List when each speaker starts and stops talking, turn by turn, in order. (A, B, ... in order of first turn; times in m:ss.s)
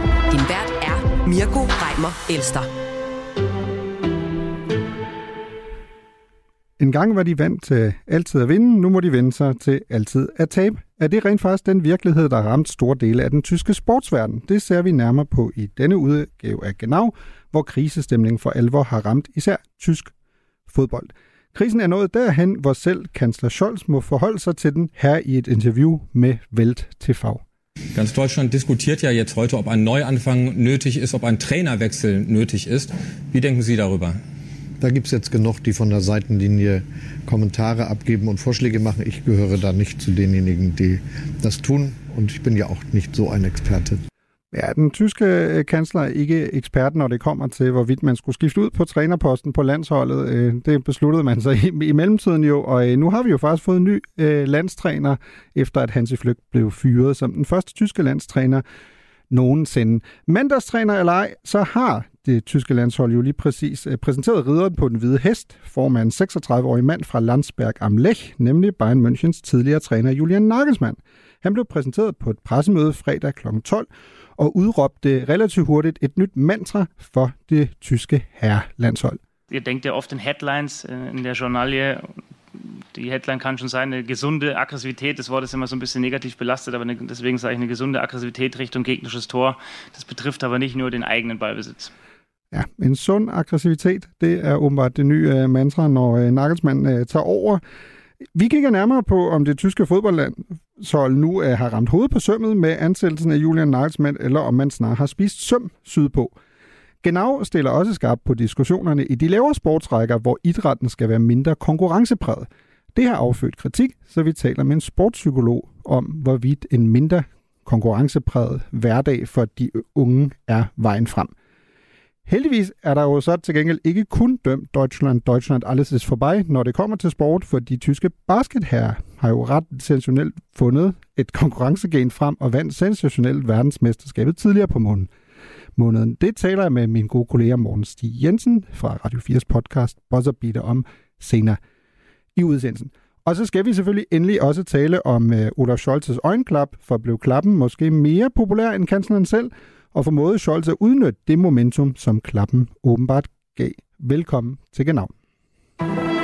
0:00.3-0:02.7 A
0:06.8-0:20.1 B
0:20.7-0:27.4 B
0:27.9-0:34.2 C
0:34.8-0:44.0 D
0:44.5-0:58.6 B
0:59.3-1:19.2 B
1:19.5-1:31.9 E
1:32.5-1:37.6 B
1:38.3-1:46.3 B
1:47.0-2:01.3 B
2:02.2-2:15.1 B
2:15.8-2:21.6 B
2:22.3-2:35.1 B